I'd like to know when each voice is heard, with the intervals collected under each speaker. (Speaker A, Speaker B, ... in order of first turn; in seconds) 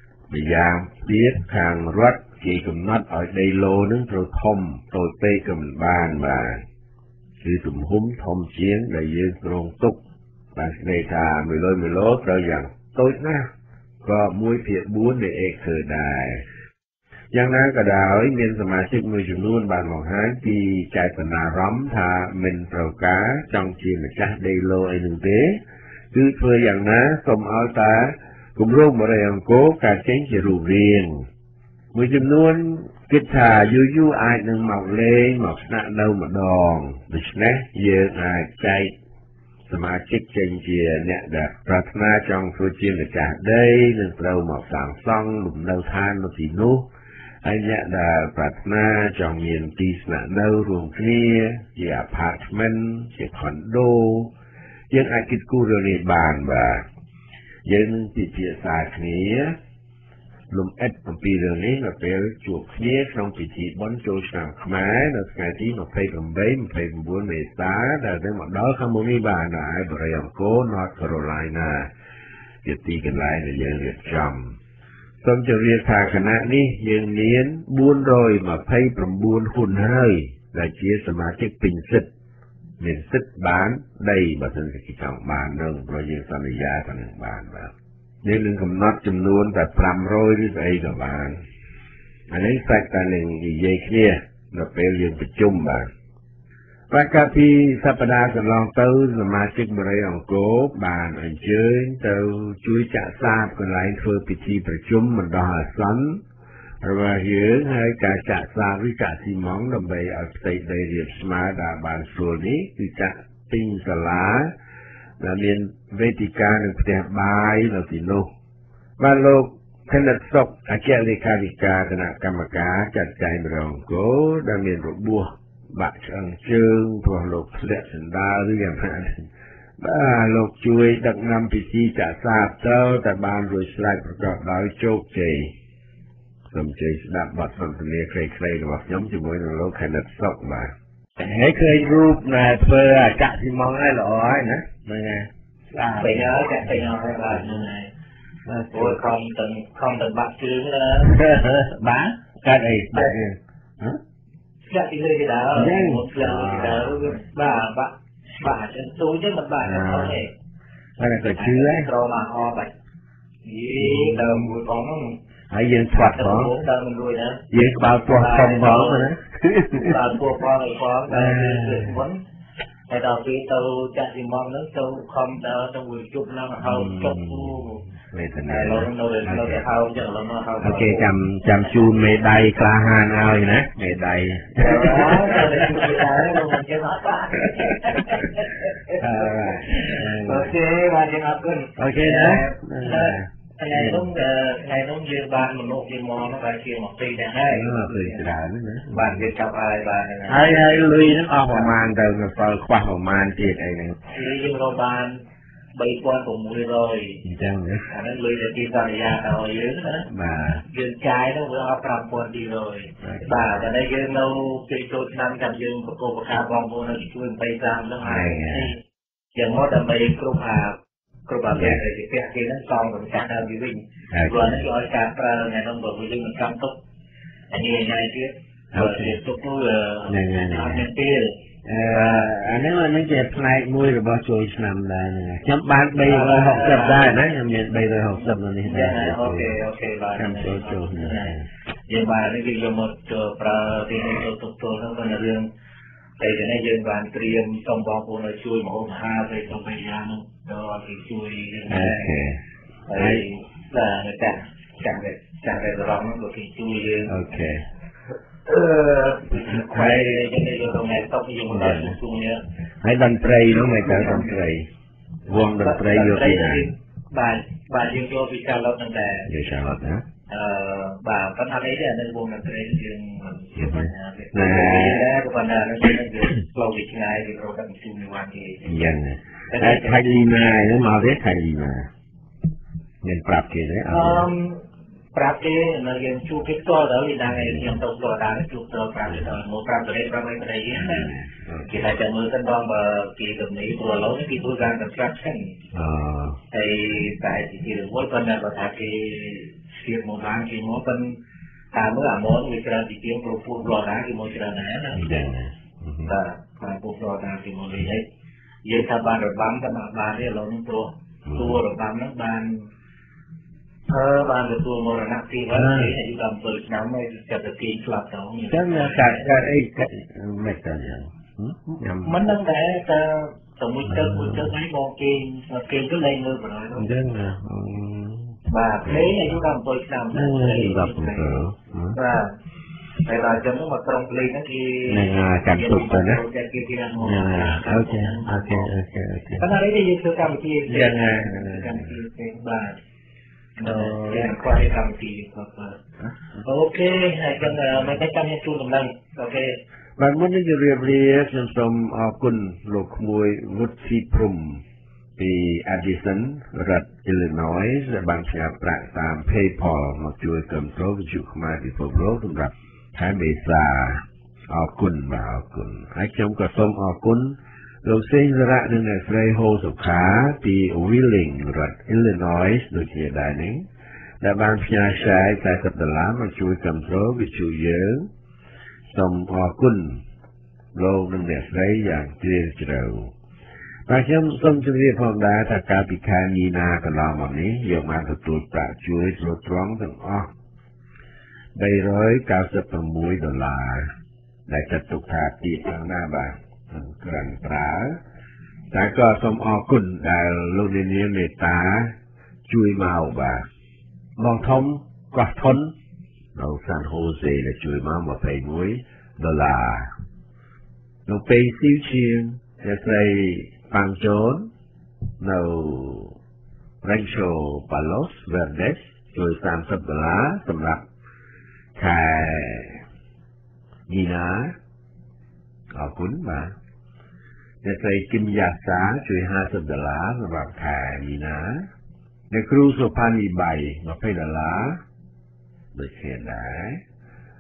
Speaker A: 0.3-6.5, 7.4-10.0, 10.5-13.5, 14.0-16.4, 17.3-25.6, 26.1-31.2, 31.9-38.9, 39.7-46.9, 47.4-54.3, 54.9-56.8, 57.6-59.5, 60.5-71.9, 72.6-74.5, 75.2-82.1, 82.8-87.7, 88.2-91.4, 92.3-95.9, 96.9-106.2, 106.8-114.5, 115.2-118.3, 119.0-129.2, 129.8-135.5, 136.5-146.3, 148.4-149.0, 151.0-154.0, 155.6-157.1, 159.6-160.2, 161.0-161.9, 163.8-164.4, 165.5-166.6, 167.5-169.9, 171.1-172.0, 176.6-179.7, 180.6-186.2, 188.9-190.5, 191.8-194.1, 197.5-199.3, 200.3-204.0, 207.2-207.8, 210.1-210.6, 213.0-213.6, 218.0-218.7, 221.5-221.8, 224.1-224.7, 228.7-229.2, 230.1-230.8, 231.6-239.6, 240.2-241.4, 251.7-252.4, 252.9-253.2, 257.1-257.6, 259.5-260.1, 261.5-262.0, 262.8-264.7, 265.2-266.7, 269.2-270.0, 273.6-275.0, 278.6-281.9, 283.0-284.3, 287.3-287.8, 289.1-289.4, 290.7-291.9, 295.7-296.4, 304.9-306.1, 311.2-311.6, 315.5-315.9, 318.5-322.2, 323.9-324.5, 326.8-329.4, 330.1-332.0, 334.9-336.2, 337.0-339.5, 340.7-341.9, 343.6-344.3, 350.0-354.6, 355.2-373.6, 374.2-378.1, 378.9-380.0, 380.7-383.1, 383.9-390.3, 391.6-393.9, 394.5-398.0, 398.7-401.9, 402.5-403.4, 404.2-405.7, 406.3-409.9, 411.1-414.5, 415.2-416.1, 416.8-420.8, 421.7-422.8, 423.9-424.5, 425.7-426.5, 427.6-431.6, 432.3-434.8, 435.7-436.8
Speaker B: 146.0-147.9, 148.7-151.2, 154.7-160.3, 161.3-162.7, 163.4-165.2, 165.9-167.4, 168.1-169.1, 169.8-172.2, 172.9-177.8, 178.5-181.0, 184.6-198.2, 198.9-200.7, 204.1-205.2, 205.7-207.2, 207.9-210.1, 210.7-218.7, 219.3-226.8, 227.5-231.3, 231.9-232.3, 236.0-237.1, 238.6-241.3, 241.9-245.4, 246.2-252.1, 252.9-257.2, 258.4-262.4, 263.8-264.3, 265.6-269.3, 270.3-278.9, 279.5-280.2, 283.9-284.6, 285.1-291.1, 291.6-295.6, 296.5-301.1, 301.7-305.2, 306.1-308.1, 308.6-312.6, 313.9-319.4, 322.0-326.9, 328.5-331.4, 331.9-332.3, 333.0-338.7, 339.4-342.8, 343.6-345.8, 346.4-349.6